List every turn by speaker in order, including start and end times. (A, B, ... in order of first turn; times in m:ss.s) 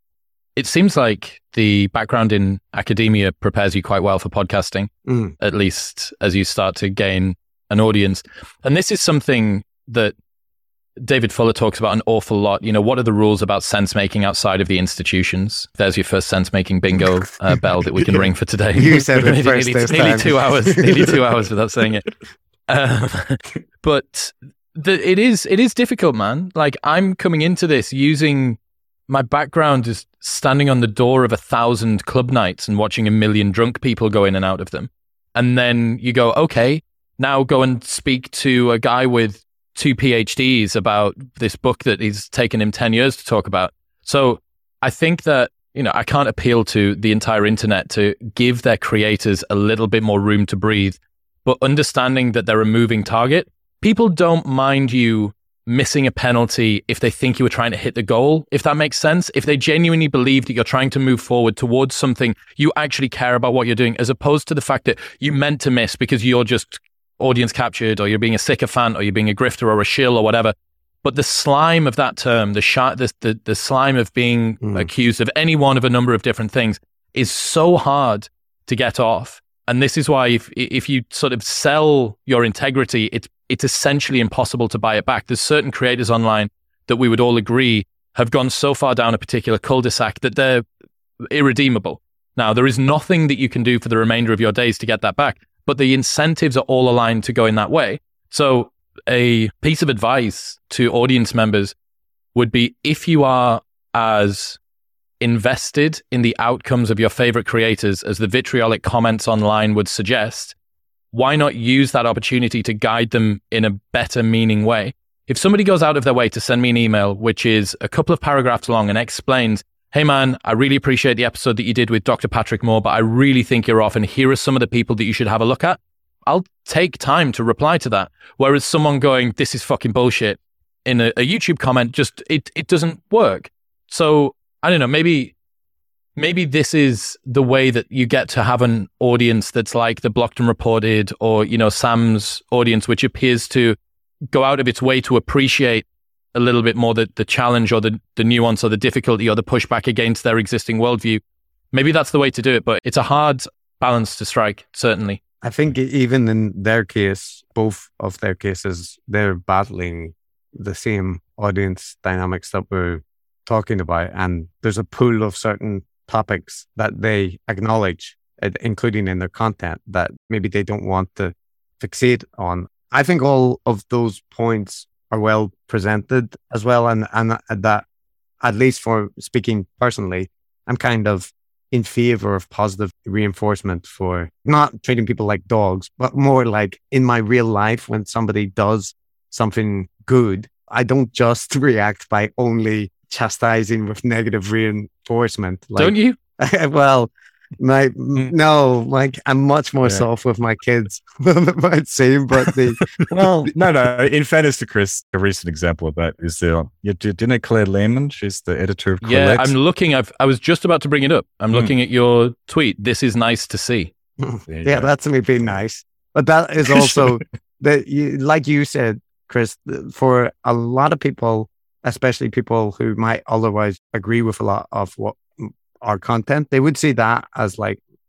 0:00.6-0:10.2 A
0:05.1-0:05.4 B
0:11.0-0:22.1 A
0:18.8-0:21.2 B
0:22.7-1:30.6 A
1:14.6-1:14.9 B
1:31.3-1:41.8 A
1:42.3-1:44.6 A
1:45.2-1:50.6 A
1:51.1-2:15.4 A
2:16.2-2:23.8 A
2:24.3-2:31.2 A
2:31.7-2:35.2 A
2:35.4-2:57.8 B
2:58.4-3:22.9 B
3:15.8-3:16.2 A
3:23.1-3:29.6 C
3:29.0-3:33.9 A
3:34.2-3:47.8 B
3:34.5-3:35.6 C
3:36.7-3:37.1 C